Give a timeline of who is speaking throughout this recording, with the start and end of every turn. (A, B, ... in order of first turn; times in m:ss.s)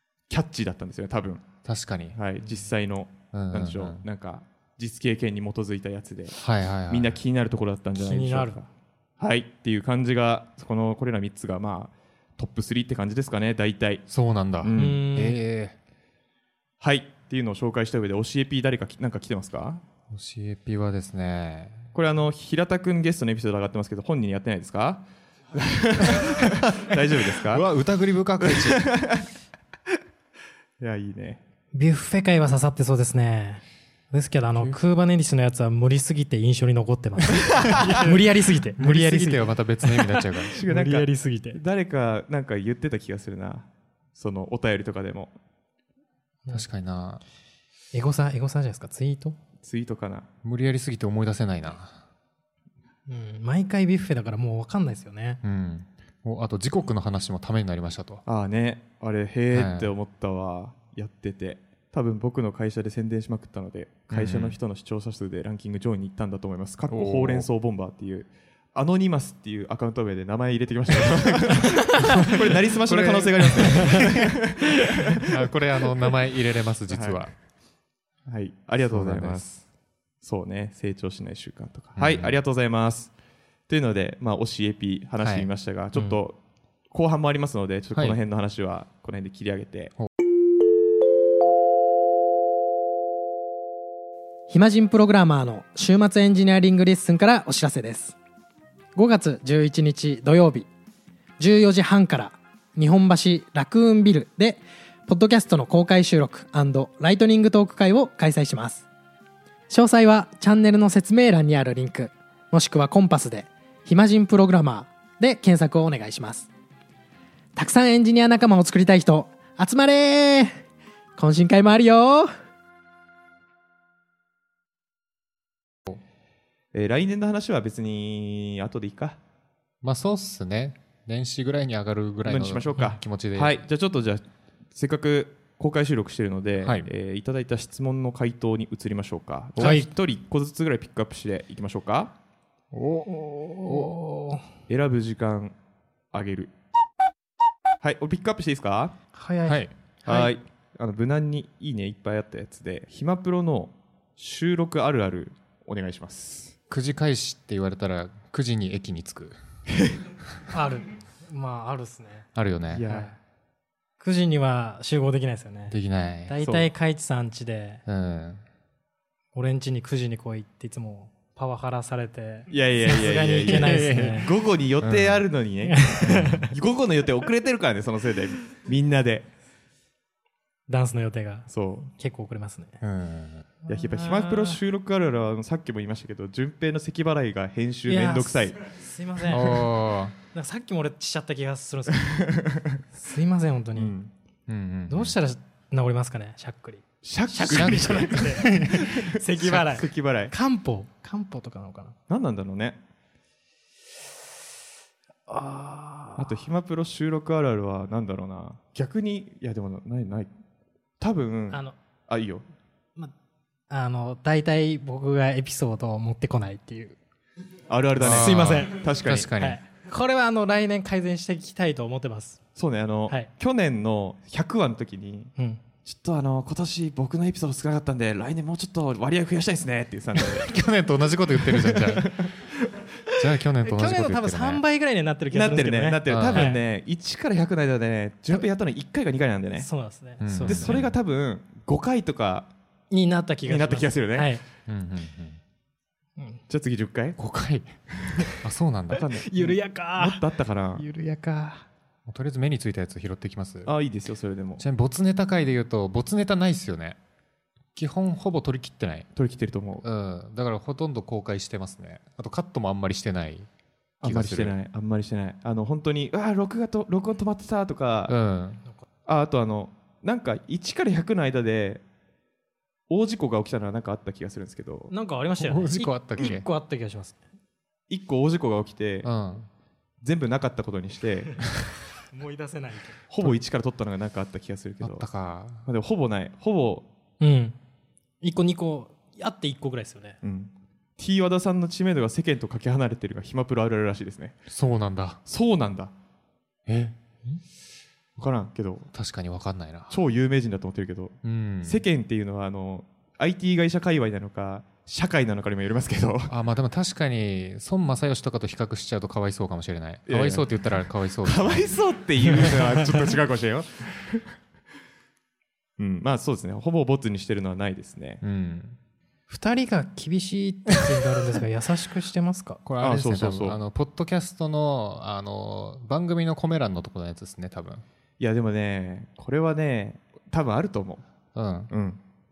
0:00.3-0:01.4 A
0:01.6-0:02.2 B
0:02.2-0:06.4 A
0:03.3-0:04.0 B
0:06.4-0:07.2 B
0:06.9-0:08.7 A
0:08.0-0:08.6 C
0:09.2-0:14.0 A
0:14.1-0:15.8 B
0:14.6-0:15.1 A
0:14.8-0:15.4 C
0:16.8-0:19.8 A
0:20.1-0:21.8 B
0:21.9-0:27.6 A
0:27.4-0:28.8 B
0:28.4-0:29.3 A
0:30.8-0:31.4 A
0:31.7-0:41.6 C
0:37.6-0:38.2 B
0:37.6-0:37.9 A
0:38.8-0:40.6 B
0:40.5-0:45.4 A
0:46.5-0:47.2 B
0:47.9-0:49.4 C
0:49.6-0:50.3 A
0:50.4-0:52.0 B
0:53.1-0:55.4 C
0:55.4-0:58.2 B
0:58.3-1:15.3 A
0:59.5-0:59.9 B
1:04.1-1:04.6 B
1:06.9-1:07.5 B
1:12.0-1:14.2 B
1:13.6-1:14.1 C
1:15.2-1:17.3 B
1:16.9-1:17.3 A
1:18.3-1:19.6 A
1:18.9-1:19.6 B
1:20.2-1:23.1 A
1:22.0-1:22.4 B
1:23.7-1:26.4 A
1:25.2-1:25.5 B
1:26.9-1:29.9 A
1:34.5-1:38.2 C
1:39.0-1:40.7 C
1:41.4-1:48.8 C
1:49.7-1:56.5 C
1:57.6-2:00.6 C
2:01.2-2:02.3 C
2:06.7-2:09.2 A
2:09.8-2:13.6 B
2:12.2-2:22.1 A
2:16.6-2:16.9 B
2:19.6-2:19.8 B
2:19.6-2:19.9 C
2:22.7-2:23.9 B
2:23.1-2:24.4 C
2:24.7-2:25.6 A
2:26.1-2:26.5 A
2:27.8-2:29.0 A
2:29.1-2:30.3 C
2:29.5-2:29.7 B
2:30.0-2:36.6 A
2:36.7-2:39.4 B
2:40.5-2:42.3 C
2:42.4-2:42.9 B
2:42.7-2:43.1 A
2:42.9-2:43.1 C
2:44.0-2:45.8 C
2:45.7-2:46.3 B
2:46.3-2:47.8 C
2:46.4-2:46.7 A
2:47.9-2:48.4 B
2:49.3-2:54.3 C
2:52.5-2:59.3 A
2:53.4-2:54.3 B
2:54.8-2:55.2 B
2:55.7-2:56.5 C
2:56.0-2:56.4 B
3:00.7-3:02.8 C
3:01.5-3:01.9 A
3:02.8-3:03.5 B
3:03.7-3:04.6 C
3:03.7-3:08.6 A
3:07.9-3:09.7 C
3:09.3-3:10.1 B
3:10.3-3:14.0 C
3:12.1-3:12.8 A
3:13.8-3:14.1 A
3:14.5-3:15.1 B
3:14.9-3:22.0 C
3:17.0-3:20.3 A
3:17.5-3:19.6 B
3:22.1-3:22.8 A
3:25.3-3:26.4 C
3:26.2-3:30.3 A
3:31.0-3:32.4 A
3:33.7-3:37.0 C
3:37.7-3:39.3 A
3:38.0-3:39.6 B
3:38.0-3:38.8 C
3:39.4-3:42.4 C
3:42.6-3:45.3 A
3:45.4-3:45.6 C
3:45.8-3:50.5 A
3:50.2-3:52.3 B
3:51.4-3:52.5 A
3:53.1-3:54.6 B
3:53.6-3:56.6 C
3:55.3-3:59.7 A
3:56.1-3:56.6 B
3:59.6-4:00.8 C
4:00.2-4:00.9 B
4:00.4-4:02.5 A
4:02.9-4:04.4 C
4:03.4-4:04.3 A
4:04.7-4:05.4 B
4:06.5-4:07.2 A
4:07.2-4:07.7 B
4:08.4-4:09.0 B
4:08.9-4:10.8 A
4:09.0-4:11.7 C
4:12.1-4:13.7 B
4:13.6-4:14.6 A
4:14.6-4:17.0 B
4:17.8-4:19.1 B
4:19.2-4:19.8 A
4:19.8-4:23.5 B
4:24.0-4:24.6 B
4:24.0-4:28.1 A
4:28.1-4:28.6 B
4:29.1-4:31.8 A
4:32.9-4:34.9 A
4:34.9-4:37.2 C
4:35.4-4:36.5 B
4:37.9-4:39.1 A
4:39.0-4:39.5 B
4:40.0-4:41.4 A
4:42.1-4:43.0 C
4:43.1-4:45.0 A
4:44.8-4:45.6 B
4:45.7-4:46.9 A
4:47.2-4:47.6 C
4:48.2-4:50.2 C
4:50.2-4:54.4 A
4:54.5-4:55.2 B
4:55.2-4:55.9 A
4:56.7-4:57.0 B
4:58.2-4:58.9 A
4:58.9-5:00.0 B
4:59.9-5:06.3 A
5:01.2-5:01.8 B
5:06.3-5:11.7 B
5:10.1-5:10.5 A
5:11.2-5:14.3 A
5:15.8-5:18.2 A
5:18.2-5:18.8 B
5:19.3-5:22.6 C
5:22.6-5:27.8 B
5:22.8-5:23.6 A
5:28.2-5:31.0 A
5:31.4-5:31.7 B
5:31.7-5:32.0 A